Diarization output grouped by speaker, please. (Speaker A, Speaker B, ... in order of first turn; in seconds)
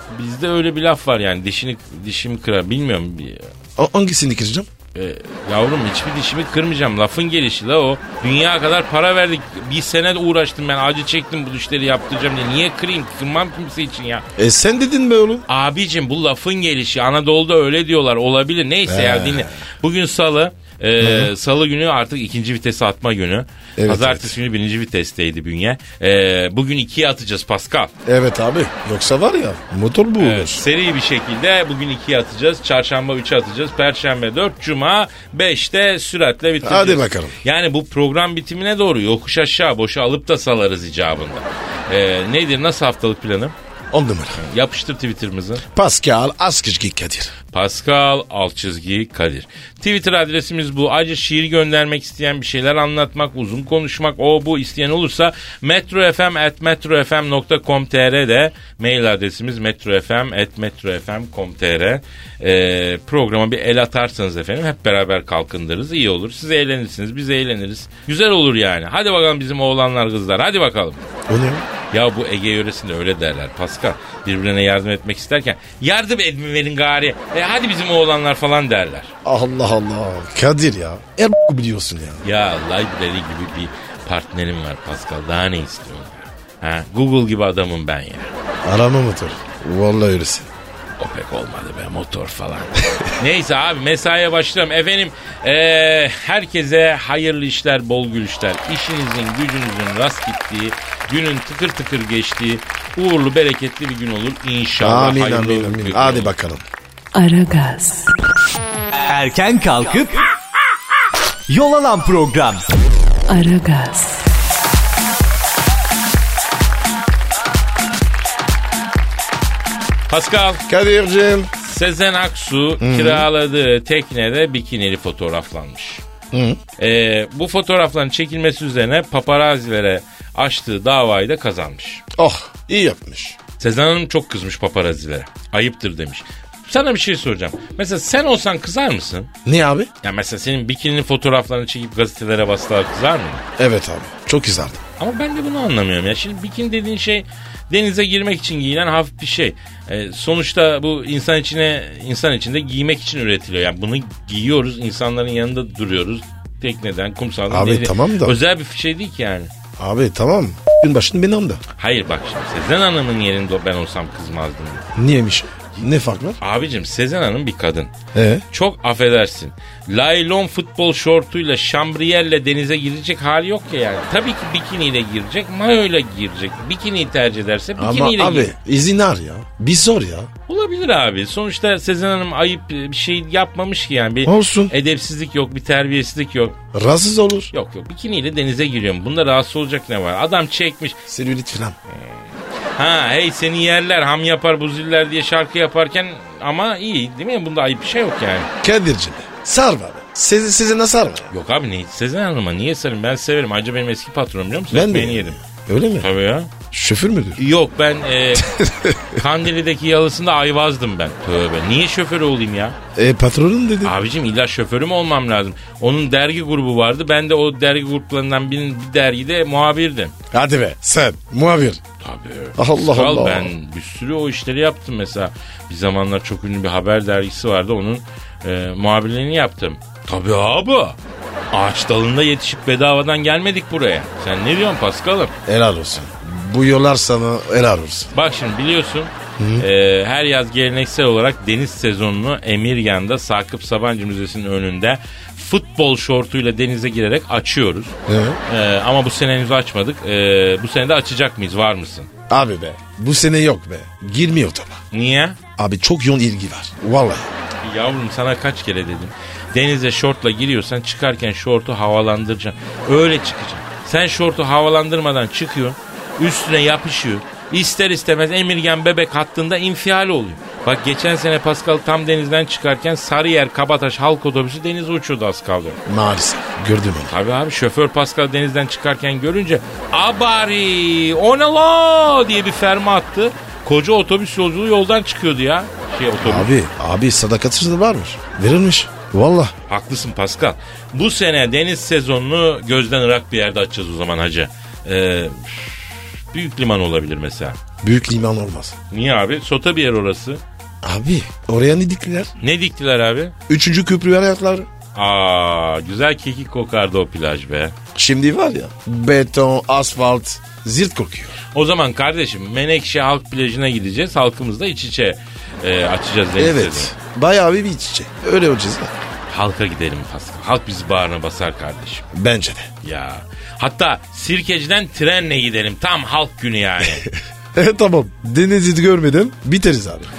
Speaker A: 0.1-3.5, 4.9-14.2, 15.5-27.9, 30.2-43.5, 44.4-45.6, 47.5-71.0, 71.9-79.1, 82.2-88.3, 91.0-106.3, 120.1-120.6, 121.6-126.0, 126.8-132.0, 133.6-139.3, 140.0-143.4, 145.0-159.5, 161.8-164.8, 166.4-167.9, 168.5-178.5, 180.5-186.6, 187.5-191.0, 191.9-192.2, 192.8-198.5, 201.3-205.3, 206.0-206.5, 207.4-212.8, 213.8-220.1, 222.0-231.0, 231.5-235.3, 238.1-247.9, 248.5-252.1, 254.9-255.4, 257.6-275.8, 277.1-286.5, 289.7-297.6, 298.9-300.4, 302.4-303.3, 304.9-307.7, 311.5-316.9, 319.3-322.1, 322.8-327.0
Speaker B: 3.8-4.7, 14.4-15.4, 18.9-19.6, 21.0-21.3, 23.8-24.3, 28.0-30.6, 36.6-37.4, 43.9-44.4, 45.7-47.3, 71.3-71.6, 79.2-82.2, 88.6-90.5, 104.8-106.7, 120.7-121.5, 122.8-123.3, 126.3-126.6, 132.2-133.4, 139.4-139.9, 143.6-144.8, 157.5-158.3, 159.8-161.6, 164.9-166.4, 168.1-168.4, 177.8-180.3, 184.2-184.7, 186.7-187.5, 191.1-191.8, 198.6-201.3, 204.7-206.1, 206.7-207.4, 208.4-209.2, 212.9-213.9, 220.3-221.8, 222.6-223.5, 235.4-238.1, 239.4-239.7, 248.1-248.4, 252.3-254.8, 255.6-257.3, 275.9-277.1, 286.2-289.5, 297.8-298.8, 300.8-302.3, 303.5-304.7, 307.9-311.4, 316.4-318.9, 322.1-322.7, 326.8-330.1
Speaker C: 107.1-108.1, 113.3-114.2
Speaker D: 109.0-110.2, 111.5-112.6